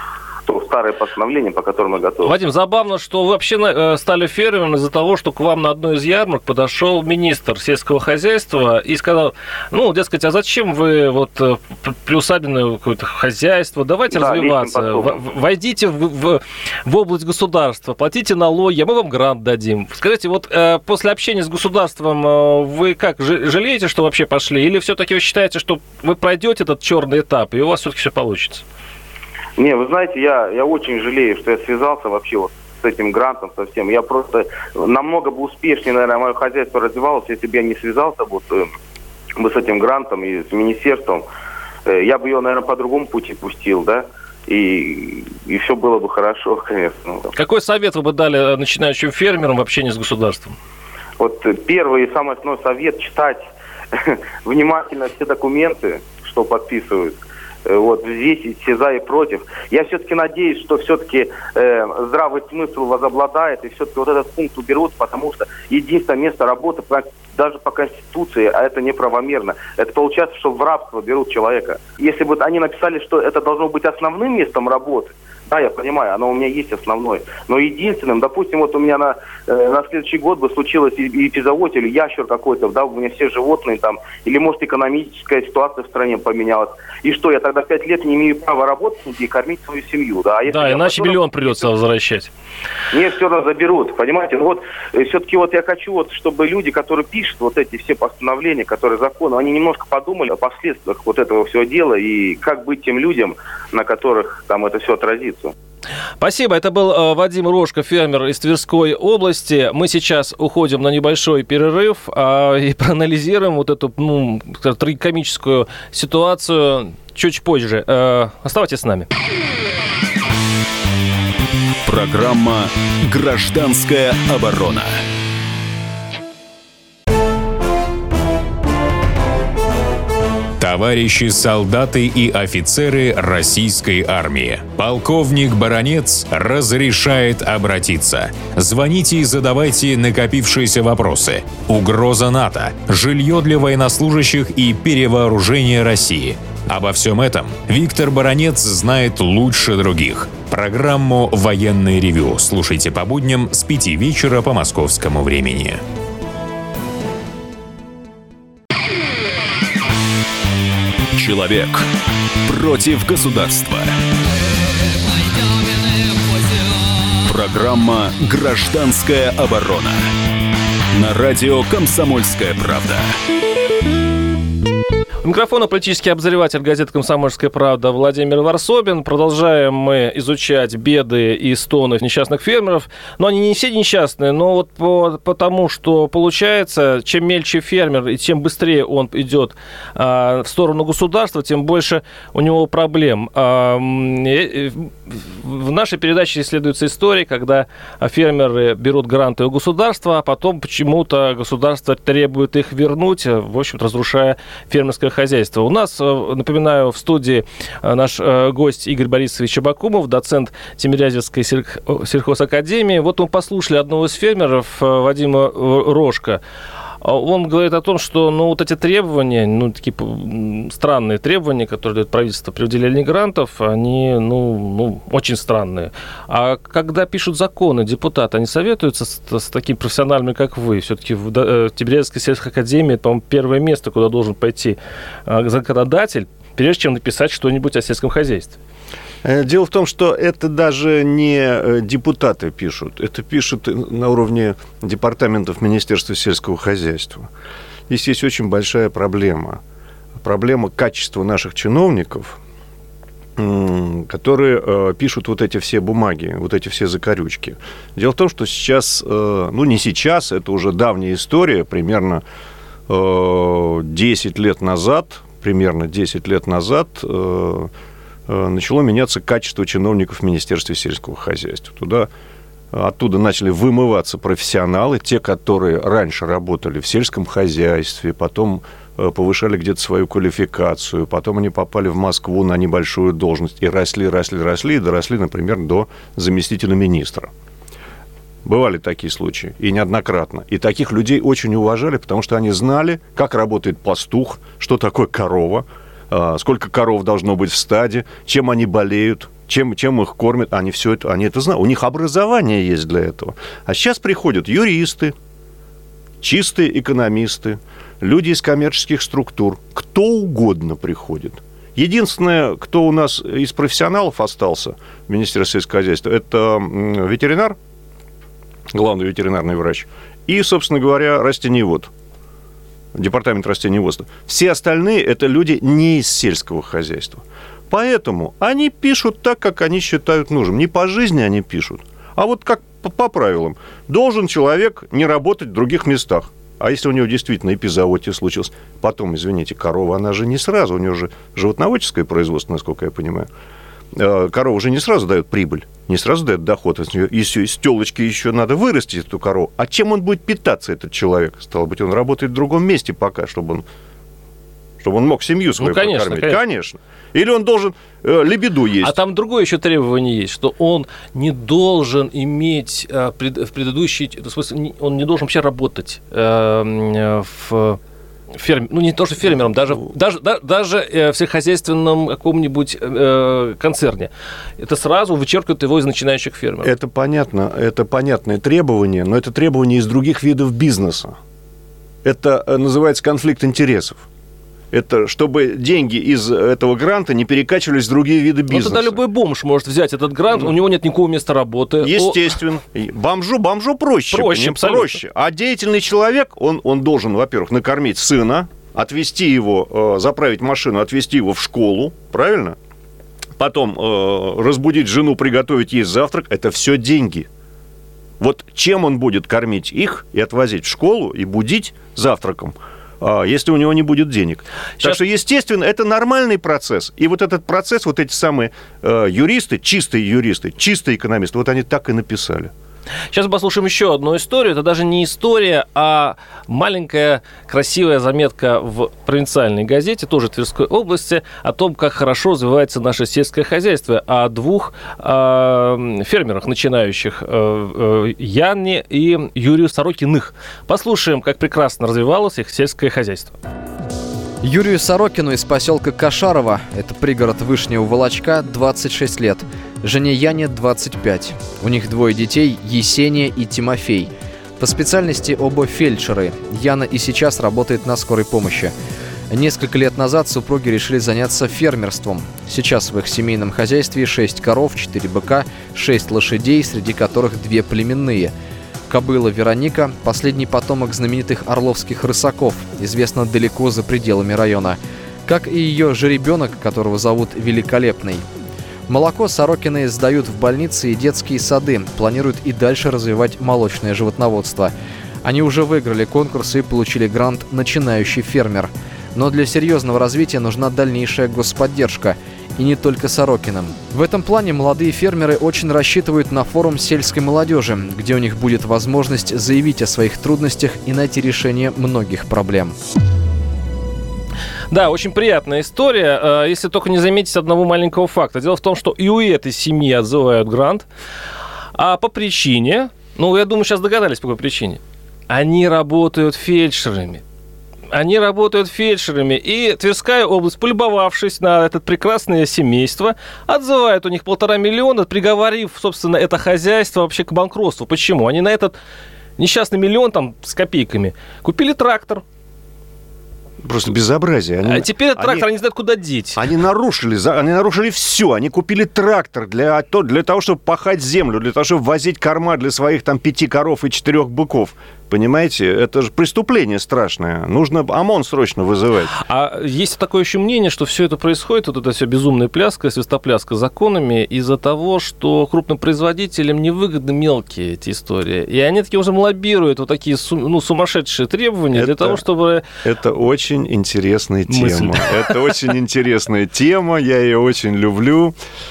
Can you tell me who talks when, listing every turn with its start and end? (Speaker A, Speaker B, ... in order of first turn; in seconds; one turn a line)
Speaker A: 0.5-2.3
Speaker B: 2.2-28.6
Speaker A: 14.1-15.2
Speaker A: 29.6-38.7
Speaker A: 39.4-41.2
Speaker A: 41.9-47.3
Speaker B: 47.3-50.5
Speaker A: 51.2-57.1
Speaker A: 57.6-91.4
Speaker B: 90.5-92.3
Speaker A: 92.9-105.5
Speaker B: 106.2-119.1
Speaker C: 121.8-125.0
Speaker D: 130.6-155.8
Speaker C: 161.1-161.9
Speaker C: 162.4-163.9
Speaker C: 167.2-170.0
Speaker C: 170.9-173.1
Speaker B: 175.2-216.4
Speaker B: 217.0-238.6
Speaker E: 239.2-247.3
Speaker E: 247.9-249.6
Speaker E: 250.2-252.4
Speaker E: 253.4-262.2
Speaker E: 262.9-267.7
Speaker E: 268.3-272.1
Speaker E: 272.7-287.3
Speaker E: 288.4-305.1
Speaker E: 306.2-317.6
Speaker E: 318.7-321.9
Speaker E: 322.9-343.3
Speaker E: 343.9-353.6
Speaker E: 354.8-358.9
Speaker B: 355.6-356.4
Speaker B: 358.8-367.8
Speaker B: 368.4-376.7
Speaker E: 376.6-381.1
Speaker E: 382.0-384.0
Speaker E: 384.7-389.0
Speaker B: 388.5-392.3
Speaker E: 391.8-402.6
Speaker B: 394.1-395.0
Speaker E: 403.4-407.3
Speaker E: 408.2-422.5
Speaker B: 423.1-443.3
Speaker F: 444.4-458.7
Speaker F: 459.3-468.3
Speaker F: 468.9-478.2
Speaker F: 478.9-484.7
Speaker F: 485.2-502.8
Speaker B: 504.7-510.9
Speaker B: 511.7-517.2
Speaker B: 517.9-528.8
Speaker B: 529.4-532.2
Speaker E: 533.6-535.5
Speaker B: 534.6-536.5
Speaker E: 536.4-549.1
Speaker B: 549.1-562.6
Speaker E: 561.7-562.2
Speaker E: 562.8-568.3
Speaker B: 564.5-565.5